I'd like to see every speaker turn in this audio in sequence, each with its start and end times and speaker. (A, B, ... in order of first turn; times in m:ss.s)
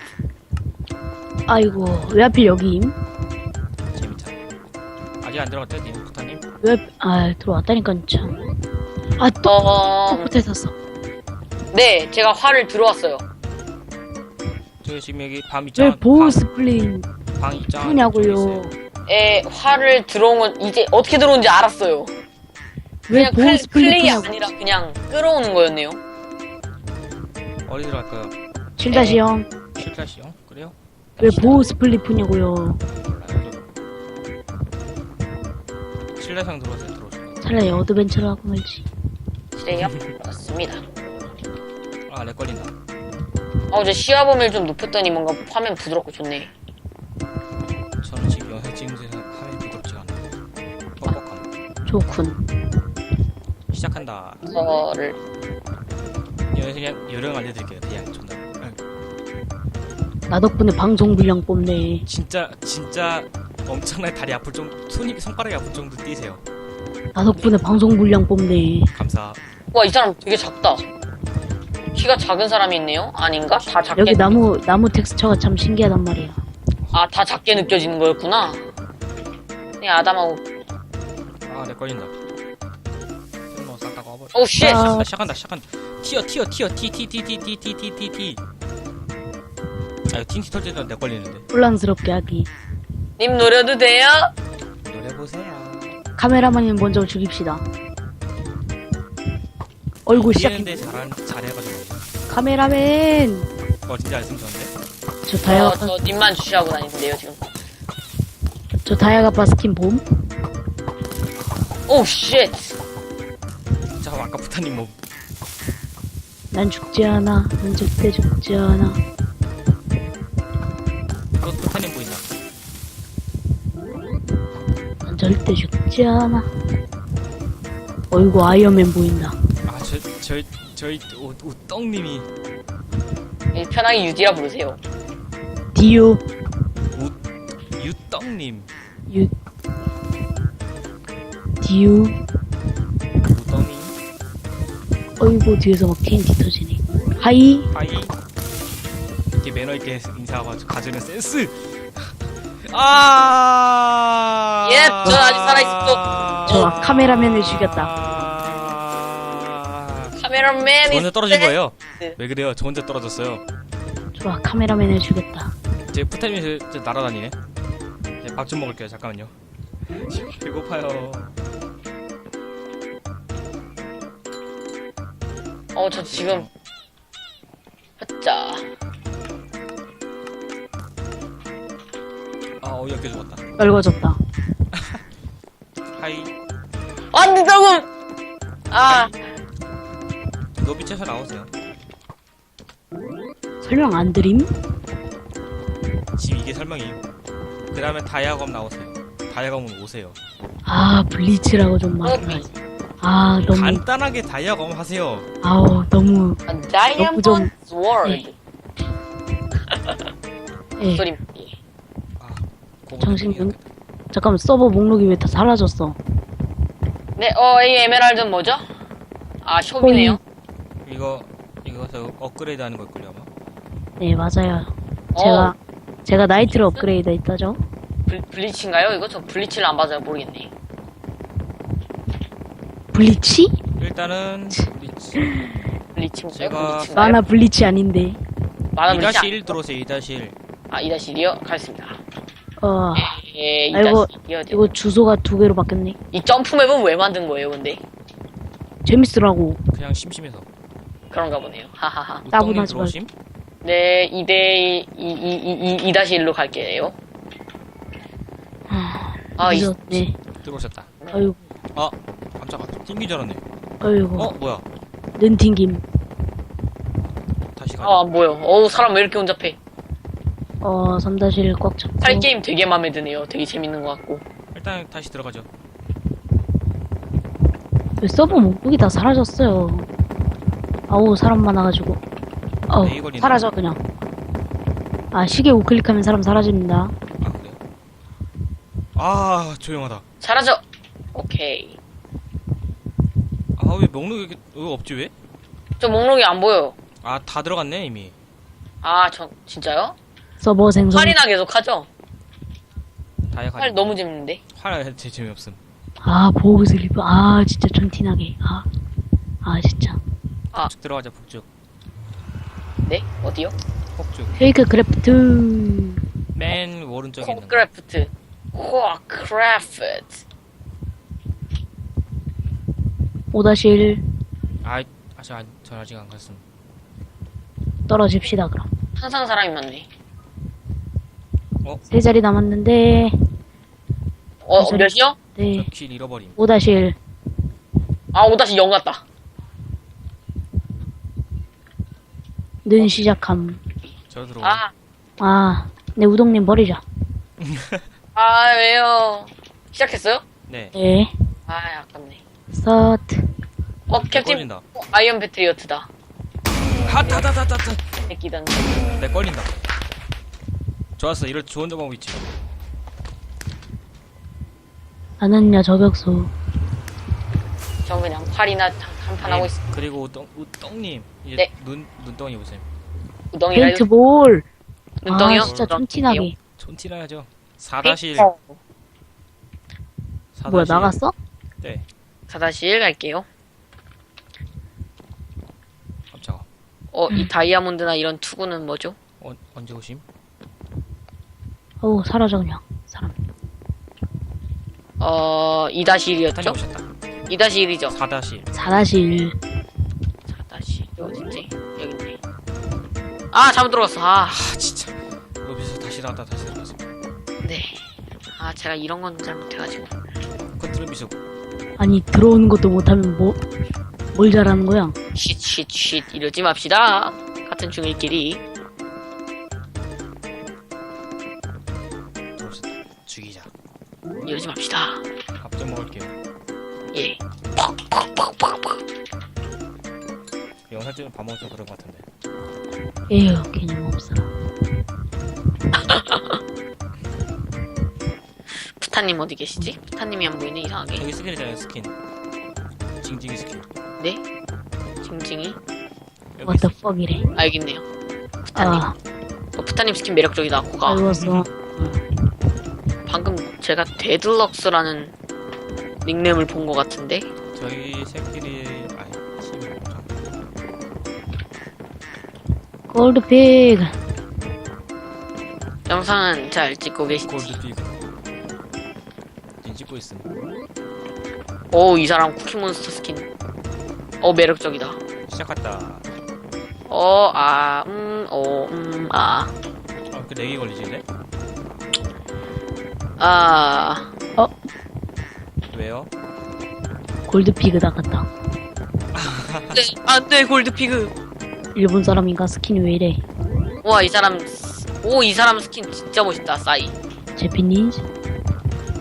0:01.5-0:03.0 A
0:03.9-0:04.4 B
0:05.2-0:06.4 B
0:06.6-0:08.4 A
0:09.2-0:10.7 A
0:09.4-0:10.4 C
0:11.7-0:13.2 C
0:14.8-0:16.4 B
0:15.8-0:17.1 A
0:17.4-0:18.7 B
0:17.7-0:18.7 A
0:19.1-0:22.1 C
0:23.1-0:24.3 A
0:23.1-0:26.0 C
0:27.7-0:28.3 B
0:28.8-0:29.5 A
0:28.9-0:29.2 C
0:29.8-0:31.8 B
0:31.2-0:32.8 A
0:33.0-0:33.7 B
0:36.2-0:37.4 B
0:37.4-0:38.9 A
0:39.6-0:40.8 C
0:42.1-0:42.7 B
0:43.7-0:46.5 C
0:48.0-0:50.2 B
0:51.0-0:51.5 B
0:51.9-0:52.4 A
0:53.7-0:54.5 B
0:54.5-0:55.2 C
0:56.5-0:58.8 B
1:00.3-1:02.0 A
1:02.1-1:06.4 B
1:07.1-1:08.9 A
1:08.9-1:09.4 B
1:09.7-1:10.8 C
1:11.9-1:14.4 C
1:14.0-1:16.4 A
1:16.9-1:18.6 C
1:19.8-1:20.4 C
1:21.5-1:22.1 B
1:23.5-1:28.4 B
1:24.3-1:25.0 C
1:24.6-1:25.1 A
1:30.1-1:31.5 B
1:31.5-1:32.5 A
1:33.2-1:34.3 C
1:34.9-1:36.0 B
1:36.2-1:37.6 A
1:40.1-1:40.9 A
1:40.1-1:42.0 B
1:42.3-1:43.5 A
1:43.9-1:44.7 B
1:45.3-1:45.9 A
1:45.4-1:47.4 C
1:48.8-1:50.0 A
1:51.9-1:52.8 C
1:54.0-1:55.0 B
1:56.5-1:59.0 A
2:01.4-2:02.2 B
2:05.0-2:06.5 A
2:08.1-2:09.4 A
2:09.7-2:12.3 B
2:13.5-2:14.8 C
2:15.7-2:16.2 A
2:17.8-2:18.7 B
2:21.6-2:22.2 A
2:23.2-2:24.0 B
2:25.2-2:27.7 A
2:27.7-2:28.1 B
2:29.4-2:31.7 B
2:32.7-2:40.2 B
2:34.6-2:36.0 C
2:36.5-2:37.9 A
2:40.2-2:42.2 C
2:40.8-2:43.4 B
2:44.2-2:45.5 A
2:45.9-2:47.4 B
2:48.2-2:49.3 B
2:49.9-2:51.4 B
2:55.7-2:56.5 C
2:56.0-2:56.5 B
2:58.0-2:58.7 C
3:02.6-3:03.4 B
3:03.6-3:04.2 A
3:06.0-3:06.3 B
3:07.1-3:07.9 C
3:08.7-3:09.2 C
3:08.8-3:09.1 B
3:10.6-3:11.5 B
3:13.6-3:14.5 A
3:16.2-3:17.0 B
3:17.7-3:20.2 B
3:20.7-3:22.5 A
3:22.0-3:22.5 C
3:23.0-3:23.8 A
3:23.4-3:25.3 B
3:25.4-3:26.4 A
3:26.5-3:28.4 C
3:27.0-3:27.5 A
3:29.7-3:30.0 C
3:30.8-3:31.0 A
3:30.9-3:31.6 C
3:32.2-3:33.7 B
3:33.0-3:33.6 A
3:34.1-3:36.0 A
3:37.2-3:38.6 C
3:39.4-3:40.2 C
3:39.8-3:40.2 A
3:40.8-3:43.3 B
3:44.0-3:47.6 A
3:45.2-3:45.5 C
3:48.1-3:50.5 C
3:52.9-3:53.5 A
3:53.8-3:55.3 B
3:55.2-3:55.6 A
3:56.0-3:57.2 C
3:56.3-3:56.9 B
3:56.9-3:58.2 A
3:58.8-3:59.4 C
3:58.9-4:00.4 B
4:00.7-4:02.0 C
4:02.6-4:03.2 A
4:03.0-4:04.7 C
4:03.7-4:06.0 A
4:06.1-4:07.8 C
4:08.8-4:09.6 A
4:09.7-4:10.5 B
4:11.1-4:12.2 C
4:12.2-4:13.1 B
4:12.3-4:12.9 A
4:13.6-4:17.0 C
4:18.7-4:20.2 A
4:19.4-4:19.7 C
4:20.4-4:20.9 B
4:21.1-4:21.4 A
4:21.8-4:23.4 B
4:23.8-4:24.3 A
4:24.2-4:24.6 B
4:25.2-4:25.8 A
4:27.6-4:28.0 B
4:27.8-4:29.6 C
4:30.6-4:32.3 A
4:32.0-4:34.2 C
4:34.5-4:35.5 B
4:38.0-4:39.9 A
4:38.2-4:38.5 B
4:40.9-4:42.0 A
4:42.7-4:43.8 A
4:42.8-4:43.5 B
4:45.1-4:46.9 A
4:47.2-4:47.6 B
4:49.0-4:50.0 B
4:50.2-4:50.6 C
4:51.1-4:51.8 C
4:53.6-4:55.1 B
4:55.8-4:56.8 C
4:57.0-4:58.1 B
4:58.8-5:00.0 C
5:00.4-5:01.2 A
5:00.9-5:01.9 C
5:03.3-5:04.0 B
5:03.6-5:04.4 C
5:04.5-5:05.6 B
5:06.0-5:08.7 A
5:09.4-5:10.0 A
5:10.6-5:11.5 B
5:12.9-5:13.6 C
5:14.0-5:14.4 B
5:14.4-5:16.0 A
5:16.4-5:17.6 B
5:17.2-5:20.2 C
5:23.3-5:24.0 A
5:24.6-5:26.4 B
5:27.9-5:28.7 A
5:29.0-5:29.9 C
5:31.9-5:33.2 A
5:34.4-5:35.2 C
5:34.6-5:35.7 A
5:35.5-5:36.4 B
5:36.4-5:37.0 A
5:38.1-5:39.0 C
5:42.6-5:43.6 A
5:44.1-5:44.6 B
5:44.4-5:44.7 C
5:45.2-5:46.8 A
5:47.4-5:47.8 B
5:48.2-5:50.2 C
5:50.5-5:50.7 B
5:50.7-5:51.1 A
5:51.5-5:52.2 C
5:52.5-5:53.3 A
5:53.9-5:55.9 C
5:54.1-5:54.6 B
5:56.8-5:58.1 B
5:56.8-5:57.3 C
5:58.1-5:58.9 C
5:58.9-5:59.6 B
6:01.0-6:02.3 B
6:05.2-6:06.3 A
6:07.8-6:09.6 C
6:09.2-6:12.6 B
6:13.3-6:13.8 C
6:13.5-6:14.5 A
6:15.0-6:16.3 C
6:15.1-6:16.4 A
6:15.3-6:15.8 B
6:16.6-6:18.3 B
6:17.8-6:18.6 C
6:20.4-6:21.0 B
6:20.5-6:21.2 A
6:22.3-6:23.3 C
6:26.1-6:26.5 B
6:26.9-6:29.0 C
6:29.2-6:30.0 B
6:31.8-6:33.2 A
6:35.0-6:36.6 C
6:36.3-6:36.9 B
6:37.3-6:38.0 C
6:37.9-6:38.7 B
6:38.5-6:39.4 A
6:40.3-6:42.2 C
6:43.3-6:44.4 C
6:44.3-6:46.8 B
6:47.4-6:47.8 C
6:48.4-6:49.9 C
6:50.6-6:51.2 B
6:51.8-6:53.4 A
6:54.1-6:55.0 A
6:55.2-6:58.4 C
7:02.4-7:03.5 B
7:04.2-7:05.0 C
7:05.4-7:06.1 B
7:06.9-7:08.8 C
7:10.7-7:12.0 B
7:13.1-7:14.3 A
7:15.7-7:16.4 C
7:18.6-7:21.1 C
7:20.9-7:21.9 B
7:23.0-7:23.6 B
7:25.0-7:25.6 C
7:26.4-7:26.8 B
7:26.4-7:27.3 A
7:27.4-7:27.8 C
7:28.5-7:28.8 C
7:28.6-7:29.0 A
7:29.6-7:31.0 C
7:30.9-7:32.0 A
7:31.1-7:31.5 B
7:33.1-7:35.1 C
7:36.0-7:37.3 C
7:37.5-7:40.1 B
7:42.9-7:44.0 A
7:45.9-7:47.6 C
7:47.2-7:48.1 B
7:49.6-7:50.3 B
7:51.7-7:53.3 C
7:54.2-7:55.0 C
7:55.3-7:56.0 B
7:56.9-7:59.5 C
8:00.1-8:01.0 B
8:03.2-8:04.1 C
8:05.7-8:06.1 B
8:07.3-8:08.3 A
8:09.2-8:09.8 B
8:09.7-8:11.1 C
8:11.8-8:13.2 A
8:13.8-8:16.9 C
8:17.4-8:18.1 A